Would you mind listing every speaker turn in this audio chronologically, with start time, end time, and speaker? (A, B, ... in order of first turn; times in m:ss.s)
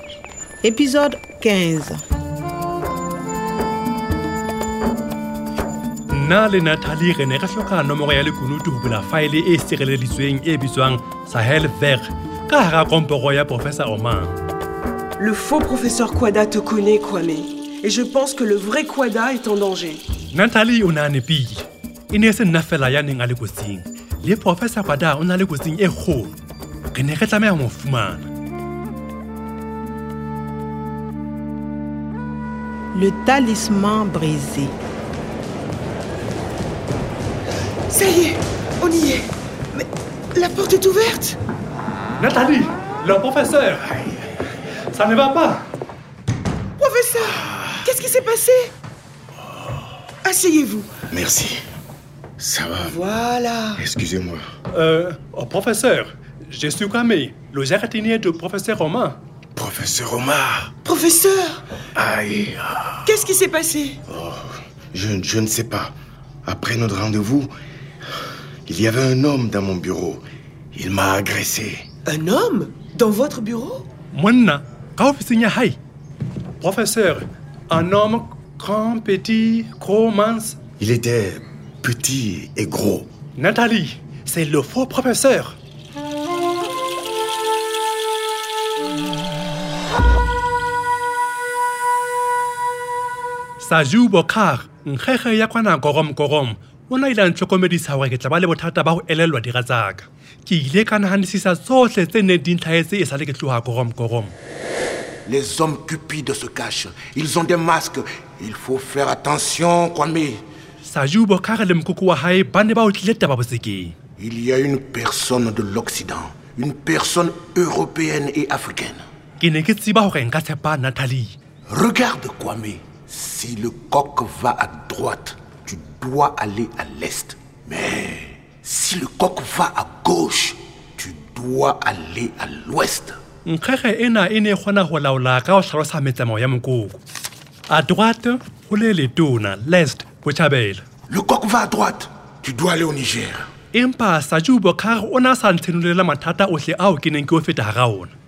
0:00.6-0:02.0 A
0:06.1-0:14.4 B
0:15.2-0:20.0 C
0:20.3-0:26.4 B
0:26.9-0:28.3 B
0:32.9-0:34.7 A
0:37.9-0:41.4 C
0:42.2-0:43.9 B
0:44.9-0:45.7 B
0:46.8-0:48.7 C
0:50.2-0:50.9 C
0:51.1-0:51.6 D
0:52.4-0:53.1 D
0:52.9-0:53.8 C
0:53.8-0:54.4 D
0:54.7-0:59.2 B
0:59.6-1:00.7 D
1:00.9-1:01.6 C
1:02.0-1:03.2 D
1:03.1-1:04.0 C
1:04.1-1:05.9 D
1:06.4-1:07.5 D
1:08.7-1:11.8 D
1:12.1-1:13.8 C
1:14.1-1:15.8 B
1:16.6-1:20.6 B
1:20.8-1:23.1 D
1:23.4-1:25.6 B
1:33.6-1:44.4 B
1:45.3-1:50.4 E
1:50.8-1:54.0 B
1:54.2-1:59.0 E
1:59.4-2:01.4 B
2:01.7-2:13.2 E
2:13.4-2:17.0 B
2:17.7-2:20.8 B
2:21.1-2:23.5 E
2:23.7-2:28.1 B